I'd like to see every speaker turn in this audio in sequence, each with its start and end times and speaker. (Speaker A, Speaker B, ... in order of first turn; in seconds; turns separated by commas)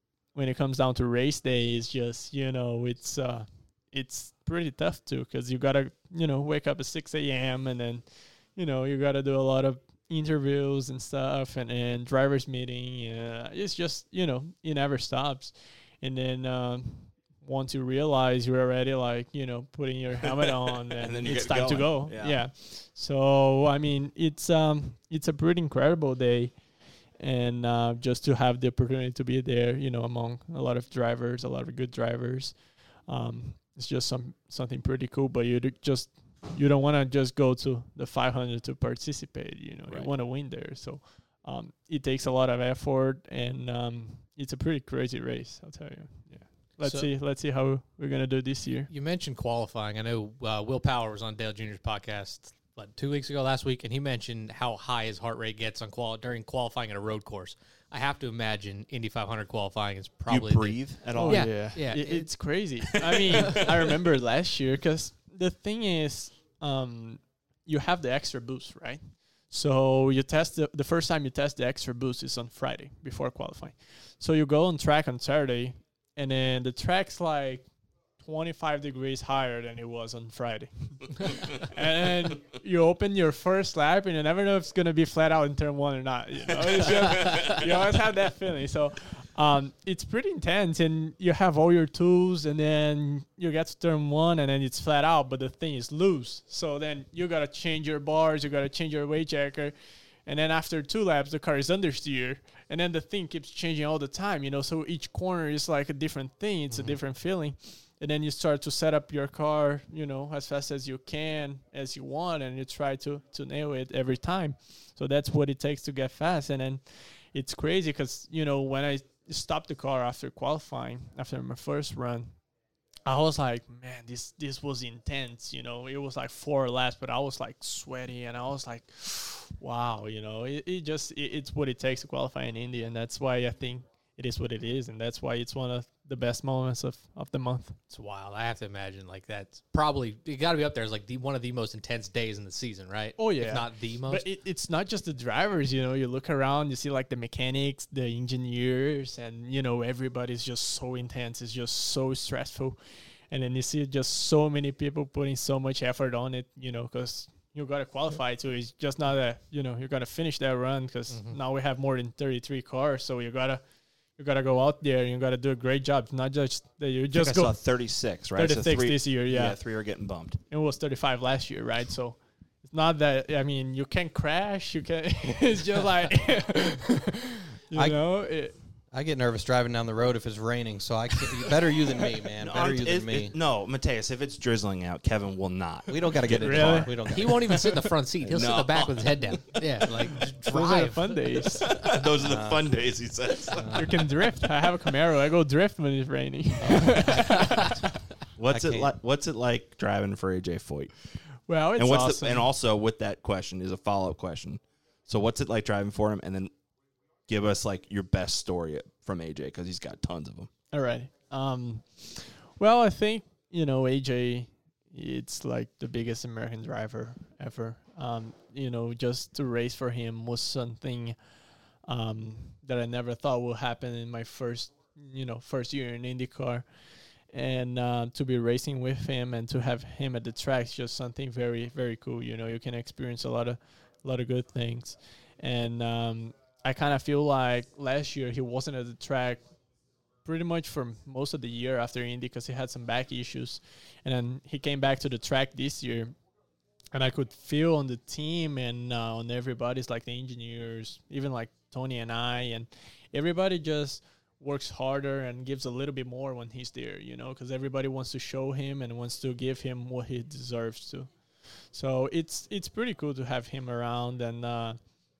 Speaker A: 0.3-26.5, Speaker B: 20.4-22.4, Speaker A: 27.2-32.5, Speaker A: 33.1-48.9, Speaker C: 46.8-47.1, Speaker C: 48.9-62.3, Speaker B: 60.3-61.8, Speaker A: 61.2-77.7, Speaker B: 62.8-63.7, Speaker A: 78.2-99.8, Speaker B: 86.7-87.7, Speaker A: 100.3-122.3, Speaker A: 123.1-137.8, Speaker C: 137.9-144.2, Speaker A: 143.2-152.8, Speaker A: 153.3-163.6, Speaker C: 161.1-161.4, Speaker A: 164.2-167.6, Speaker B: 167.1-170.4, Speaker A: 168.3-169.6, Speaker A: 170.5-178.6, Speaker D: 177.7-178.0, Speaker D: 178.9-183.4, Speaker B: 182.4-187.1, Speaker D: 185.9-187.7, Speaker A: 186.4-187.0, Speaker C: 187.1-191.8, Speaker A: 187.5-187.8, Speaker B: 188.2-189.6, Speaker A: 190.4-191.8, Speaker B: 191.6-193.9, Speaker D: 192.2-192.7, Speaker C: 193.6-193.8, Speaker A: 193.7-197.8, Speaker B: 196.7-197.0, Speaker C: 197.1-197.8, Speaker B: 198.4-200.9, Speaker D: 198.5-198.9, Speaker A: 201.5-202.5, Speaker B: 201.8-206.5, Speaker B: 207.3-210.5, Speaker A: 210.7-221.2, Speaker A: 221.8-226.7, Speaker A: 227.3-239.4, Speaker A: 240.2-246.2, Speaker A: 246.9-261.1, Speaker A: 261.7-264.8